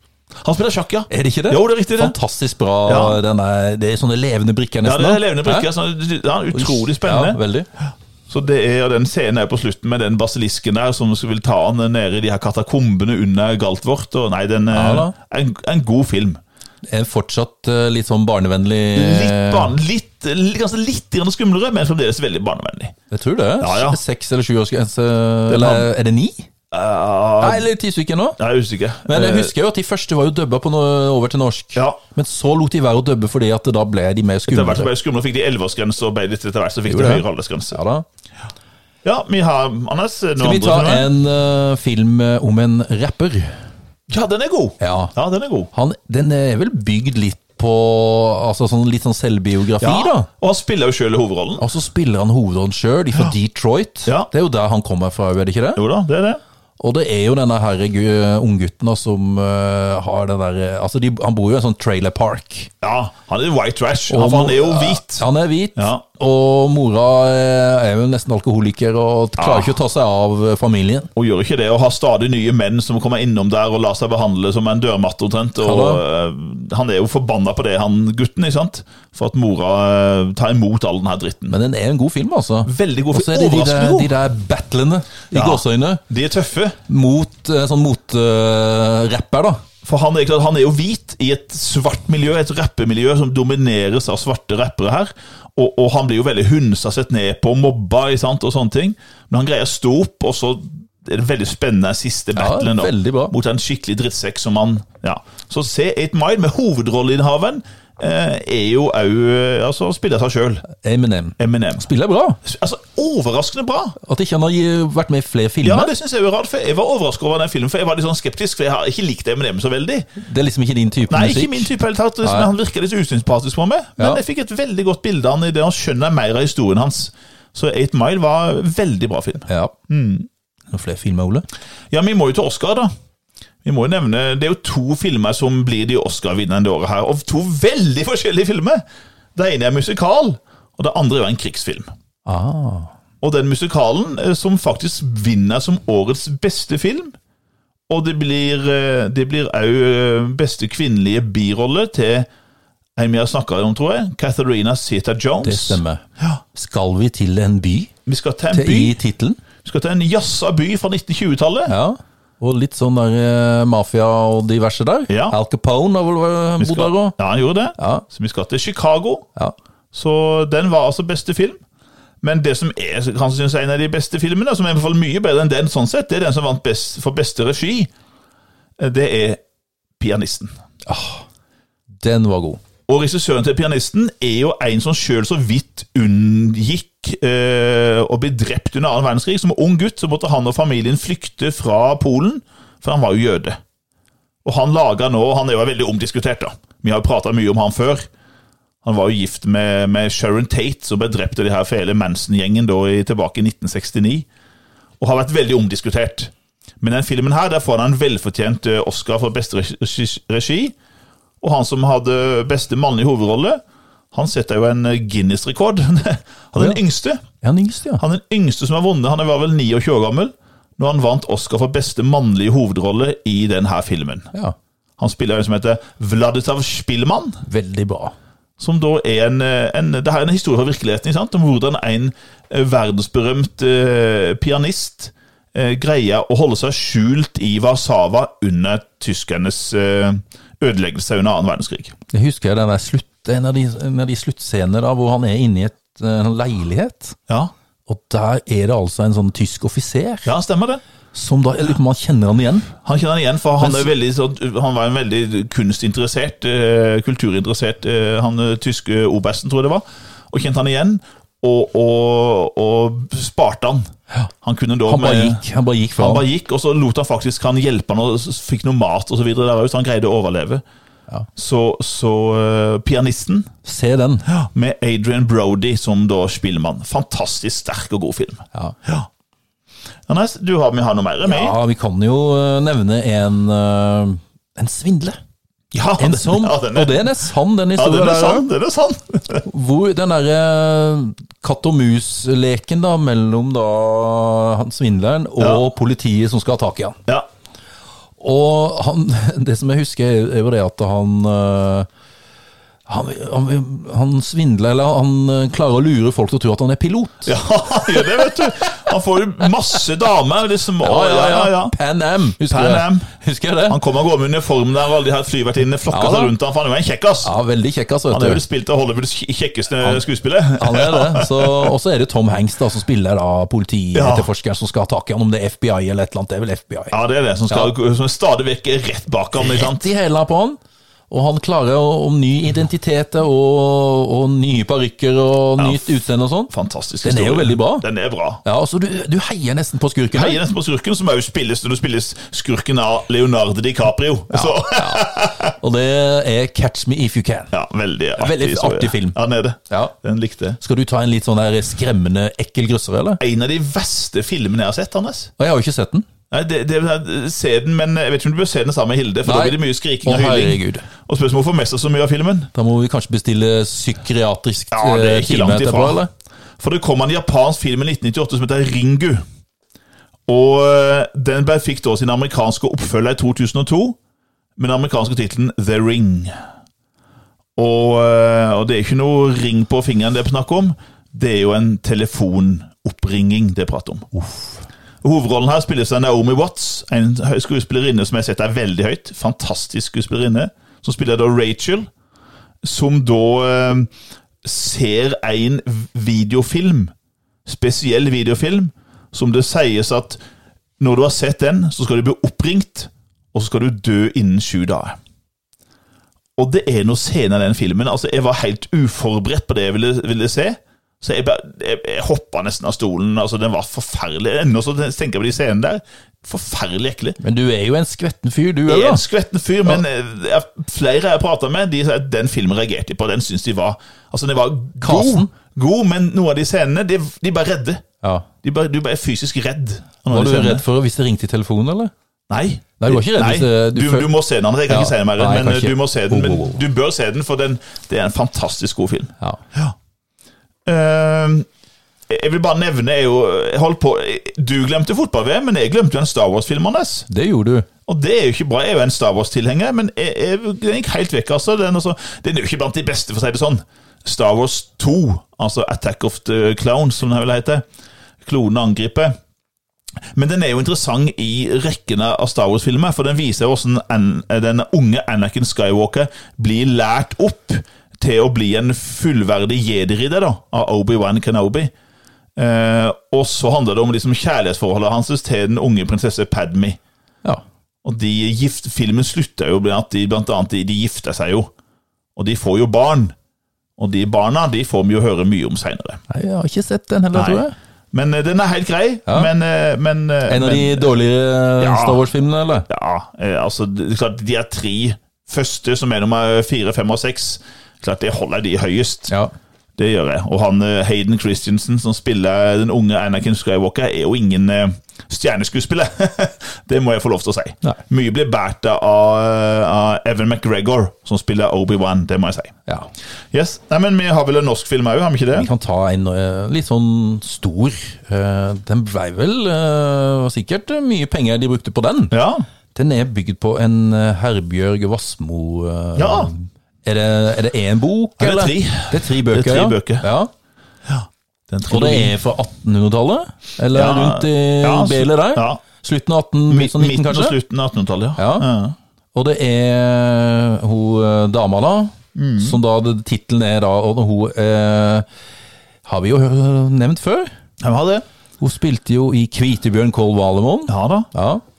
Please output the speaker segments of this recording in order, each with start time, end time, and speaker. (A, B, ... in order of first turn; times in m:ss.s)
0:00.4-0:02.2 A
0:01.1-0:05.7 B
0:02.8-0:03.2 A
0:04.8-0:07.4 A
0:06.5-0:07.7 B
0:08.3-0:16.4 A
0:14.7-0:15.1 B
0:16.9-0:19.7 B
0:18.9-0:22.9 A
0:23.1-0:26.5 B
0:23.6-0:24.0 A
0:25.5-0:25.9 A
0:26.7-0:27.7 A
0:27.4-0:28.4 B
0:28.4-0:29.5 A
0:29.0-0:34.9 B
0:34.5-0:37.8 A
0:36.9-0:38.0 B
0:39.0-0:41.1 A
0:40.4-0:43.6 B
0:44.1-0:45.7 A
0:44.8-0:45.1 B
0:45.7-0:50.3 B
0:49.8-0:51.6 A
0:51.6-0:55.8 B
0:55.8-0:56.4 A
0:56.8-1:02.7 B
1:02.8-1:05.2 A
1:04.1-1:11.1 B
1:05.8-1:06.0 A
1:09.4-1:09.8 A
1:11.2-1:21.5 A
1:15.6-1:16.0 B
1:21.5-1:26.0 B
1:22.6-1:24.1 A
1:25.3-1:26.8 A
1:26.9-1:29.6 B
1:29.8-1:50.6 A
1:42.4-1:43.3 B
1:50.7-1:52.4 B
1:51.4-1:51.9 A
1:52.4-1:54.0 A
1:54.0-1:55.9 B
1:55.6-2:00.1 A
2:00.2-2:01.7 B
2:01.1-2:10.3 A
2:02.2-2:02.5 B
2:09.5-2:09.7 B
2:10.7-2:11.4 B
2:11.9-2:12.9 A
2:13.6-2:18.8 A
2:19.4-2:21.9 A
2:22.2-2:22.9 B
2:23.2-2:27.2 A
2:27.9-2:32.3 A
2:33.0-2:36.4 A
2:35.4-2:36.0 B
2:36.5-2:37.9 B
2:38.0-2:39.0 A
2:38.5-2:39.4 B
2:39.6-2:41.7 A
2:41.7-2:47.2 B
2:45.1-2:45.4 A
2:46.6-2:49.3 A
2:47.8-2:48.0 B
2:49.9-2:51.6 A
2:52.2-2:57.9 A
2:58.8-2:59.4 A
3:00.0-3:00.5 A
3:00.8-3:01.2 B
3:02.0-3:02.6 B
3:02.9-3:13.6 A
3:14.4-3:18.0 A
3:18.8-3:24.3 A
3:25.0-3:30.7 A
3:31.4-3:33.6 A
3:34.1-3:37.2 A
3:37.4-3:38.0 B
3:38.0-3:44.3 A
3:45.0-3:47.4 A
3:47.4-3:48.1 B
3:48.6-4:01.9 A
4:02.1-4:07.2 B
4:07.9-4:10.3 B
4:10.2-4:10.8 A
4:11.1-4:12.7 B
4:12.8-4:23.9 A
4:13.6-4:13.9 B
4:24.4-4:25.4 A
4:24.8-4:26.2 B
4:26.0-4:30.6 A
4:31.4-4:33.5 A
4:33.6-4:34.3 B
4:34.3-4:39.1 A
4:40.1-4:41.6 A
4:41.2-4:45.2 B
4:45.7-4:47.1 A
4:46.0-4:48.5 B
4:47.8-4:49.4 A
4:49.4-4:57.0 B
4:58.2-5:01.9 B
5:02.9-5:07.3 B
5:07.2-5:11.7 A
5:10.8-5:13.8 B
5:12.5-5:13.1 A
5:13.7-5:17.3 A
5:15.9-5:16.3 B
5:17.2-5:18.4 B
5:18.1-5:21.7 A
5:20.6-5:27.0 B
5:23.9-5:24.3 A
5:26.9-5:29.9 A
5:29.4-5:30.6 B
5:31.1-5:36.5 B
5:35.6-5:35.8 A
5:36.5-5:38.4 A
5:37.0-5:37.8 B
5:38.4-5:40.4 B
5:40.1-5:45.5 A
5:44.3-5:47.5 B
5:47.5-5:50.6 A
5:48.2-5:49.2 B
5:50.6-5:53.2 B
5:53.2-5:55.3 A
5:55.4-5:56.0 B
5:56.3-6:02.5 A
5:59.2-6:00.8 B
6:02.5-6:06.1 B
6:04.7-6:06.0 A
6:06.6-6:09.2 A
6:10.3-6:14.0 A
6:14.6-6:16.3 A
6:17.6-6:24.1 A
6:24.2-6:24.5 B
6:25.0-6:31.9 A
6:32.6-6:33.9 A
6:34.4-6:36.9 A
6:37.4-6:40.2 A
6:40.8-6:45.0 A
6:46.4-6:57.2 A
6:57.2-6:59.0 B
6:58.6-7:07.8 A
7:04.8-7:05.3 B
7:08.0-7:08.3 B
7:08.4-7:10.6 A
7:10.1-7:11.9 B
7:12.3-7:19.7 A
7:12.8-7:14.1 B
7:14.7-7:16.6 B
7:20.6-7:21.5 A
7:22.1-7:27.1 A
7:27.1-7:27.6 B
7:27.9-7:37.6 A
7:38.2-7:39.1 A
7:40.1-7:51.7 A
7:52.4-7:56.8 A
7:57.8-8:01.5 A
8:02.2-8:03.1 A
8:03.8-8:06.0 A
8:06.1-8:07.5 B
8:07.1-8:10.9 A
8:10.2-8:12.7 B
8:11.6-8:12.1 A
8:12.7-8:19.1 A
8:19.8-8:32.6 A
8:33.3-8:35.5 A
8:35.3-8:42.2 B
8:42.1-8:42.4 A
8:42.7-8:50.3 B
8:46.0-8:46.3 A
8:48.2-8:50.0 A
8:50.9-8:52.1 A
8:51.7-8:57.4 B
8:53.7-8:55.6 A
8:56.5-8:58.8 A
8:58.2-8:58.5 B
8:59.1-9:05.0 B
9:02.1-9:02.6 A
9:05.8-9:07.3 B
9:07.6-9:08.0 A
9:08.4-9:11.4 B
9:10.7-9:11.1 A